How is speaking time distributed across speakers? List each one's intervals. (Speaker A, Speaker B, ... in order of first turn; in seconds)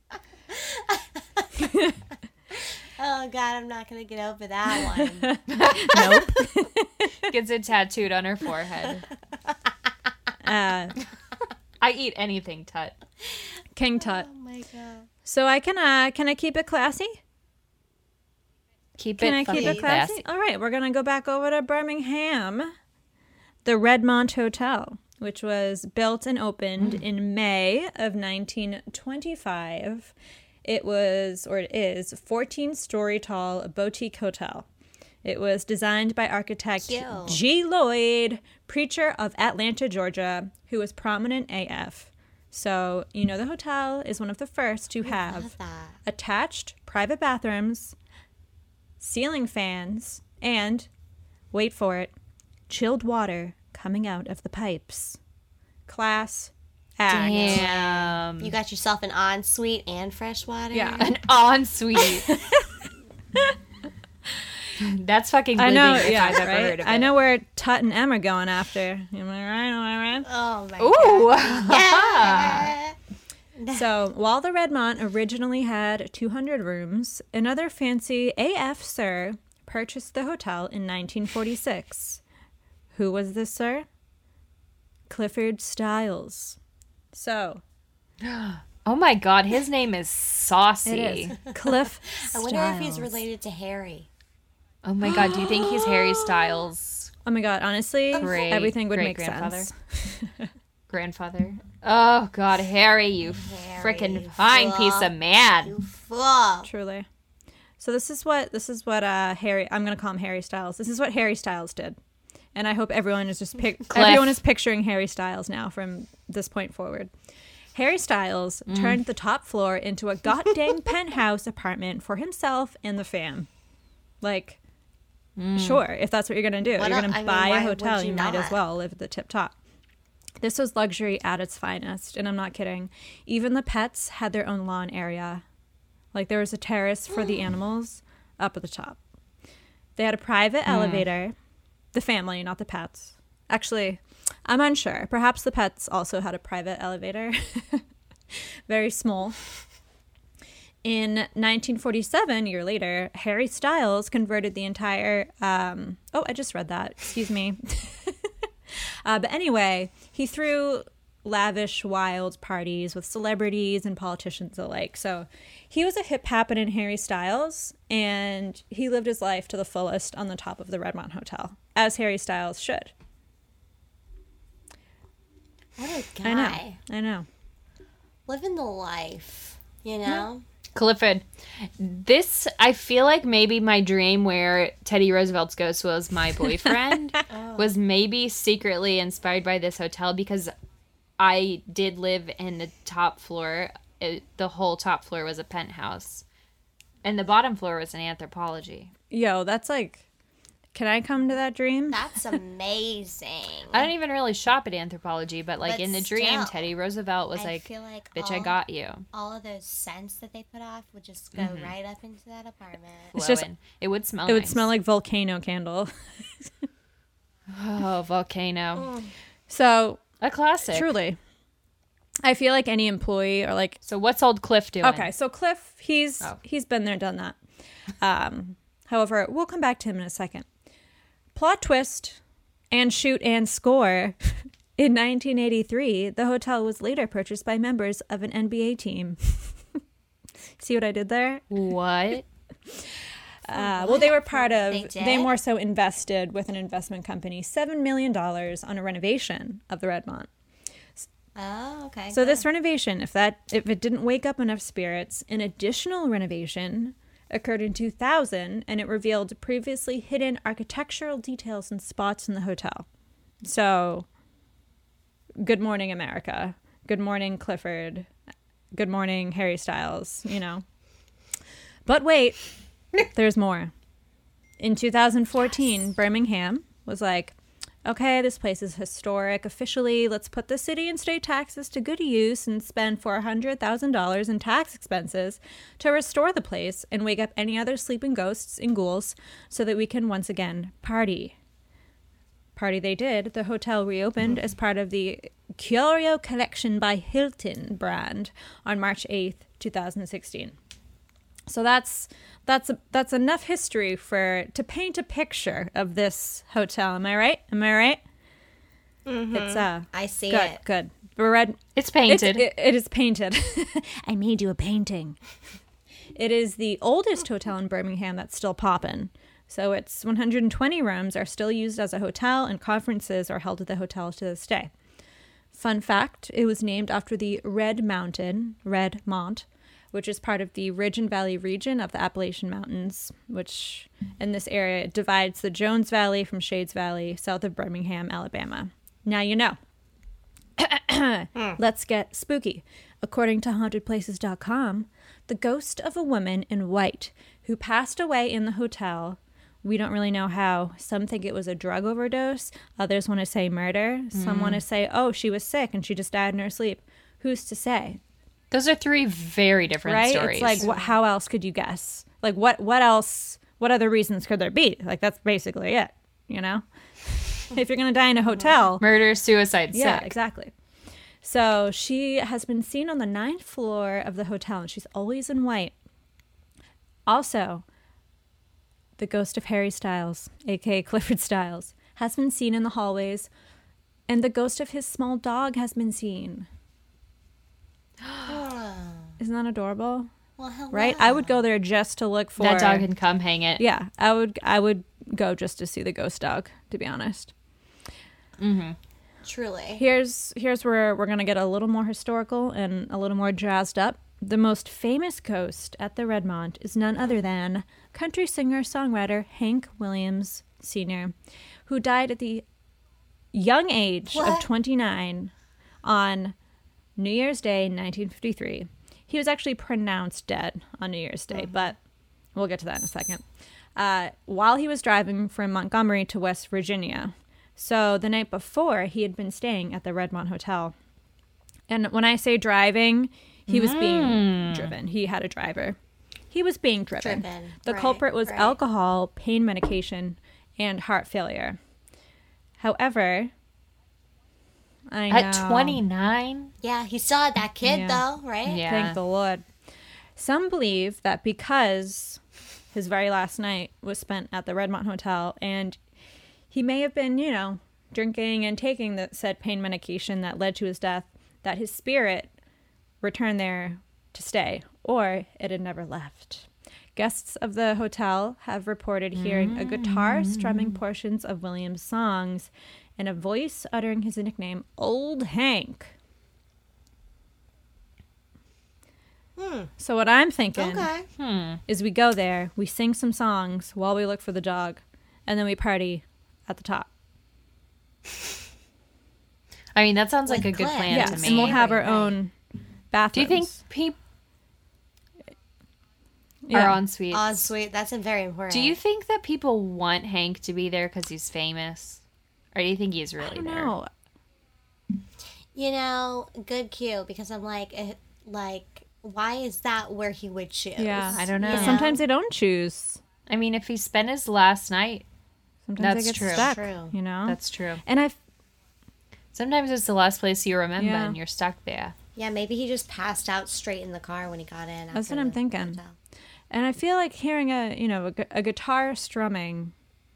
Speaker A: 0.5-1.6, 2.5-5.3, 14.0-15.1, 19.5-19.9, 36.8-37.4, 45.0-46.0, 57.1-61.1, 70.2-73.0, 73.5-73.8, 92.0-94.1, 103.2-106.7, 126.8-128.6, 175.8-176.8, 178.3-180.4, 187.3-187.7, 201.9-203.9, 205.6-206.6, 207.3-208.6, 209.1-213.1, 218.8-219.1, 243.5-245.3, 251.3-252.4, 309.1-310.6, 360.6-360.9, 388.2-389.2, 390.4-391.4, 399.2-399.8, 414.1-414.5, 421.3-421.7, 437.0-438.6, 446.6-448.7, 479.4-479.7, 480.5-481.1, 490.3-492.1, 497.1-498.8, 505.5-512.0, 516.2-516.9, 522.1-526.0
Speaker B: 1.6-1.9, 5.0-7.3, 10.4-10.9, 13.8-14.3, 15.2-17.2, 19.2-22.7, 23.6-30.1, 30.6-34.6, 35.2-45.5, 46.0-47.9, 49.0-50.9, 51.5-52.1, 52.7-55.2, 55.9-57.7, 60.7-61.1, 62.2-62.6, 65.5-70.2, 73.7-82.2, 82.9-83.8, 85.1-86.6, 87.1-87.6, 90.8-93.1, 97.2-100.5, 106.7-107.0, 107.8-112.0, 112.5-117.1, 117.7-123.5, 124.2-124.6, 125.5-129.5, 130.4-135.4, 136.1-139.0, 139.9-141.3, 141.9-147.8, 148.3-149.4, 150.8-158.3, 159.0-172.9, 176.2-177.3, 199.1-200.0, 200.7-202.1, 213.2-213.4, 214.2-216.7, 219.5-220.0, 220.7-221.2, 222.2-223.8, 224.8-227.4, 228.0-230.4, 231.3-232.2, 232.7-239.6, 240.6-241.4, 243.4-250.3, 252.1-262.9, 263.4-264.1, 265.4-268.1, 268.7-270.6, 271.9-272.4, 273.1-273.7, 274.6-291.3, 292.6-300.5, 301.5-308.0, 309.3-315.2, 316.1-324.7, 325.5-339.6, 340.6-358.0, 359.8-368.8, 369.7-370.5, 371.2-375.7, 377.1-377.6, 379.0-383.3, 384.1-386.5, 389.2-390.1, 390.7-392.9, 393.6-397.3, 399.8-411.1, 411.6-412.4, 413.3-415.3, 415.8-416.3, 417.0-421.8, 422.3-423.2, 423.8-430.7, 431.7-435.8, 436.3-441.6, 442.6-443.3, 444.9-445.8, 447.6-448.0, 448.6-449.4, 450.1-452.2, 452.7-455.8, 456.5-462.3, 463.0-475.9, 479.8-480.9, 481.7-486.9, 490.9-492.3, 492.9-493.5, 496.4-496.8, 503.2-503.9, 510.8-513.0, 515.7-518.2, 520.8-521.2, 524.9-525.8, 526.5-529.7
Speaker C: 5.5-6.1, 7.3-9.1, 11.8-12.9, 19.0-20.2, 57.1-58.5, 61.0-62.3, 64.8-67.1, 70.8-72.7, 88.2-91.4, 94.8-97.1, 98.2-99.7, 100.9-105.7, 113.9-114.4, 118.7-119.0, 125.4-125.8, 140.7-141.1, 180.7-190.5, 191.2-196.2, 197.0-198.9, 203.7-209.0, 211.3-211.7, 213.1-214.7, 217.5-218.9, 220.2-220.9, 223.8-225.1, 241.5-242.2, 311.8-312.5, 354.1-354.6, 358.5-360.6, 368.8-370.1, 392.4-393.6, 398.4-398.8, 433.5-434.7, 445.1-446.5, 448.4-449.0, 469.1-470.8, 481.2-481.6, 489.8-491.7, 493.1-494.0, 496.5-497.4, 498.5-502.0, 502.5-503.7, 511.1-511.9, 513.3-515.0, 515.8-516.5, 517.3-517.8, 519.3-521.9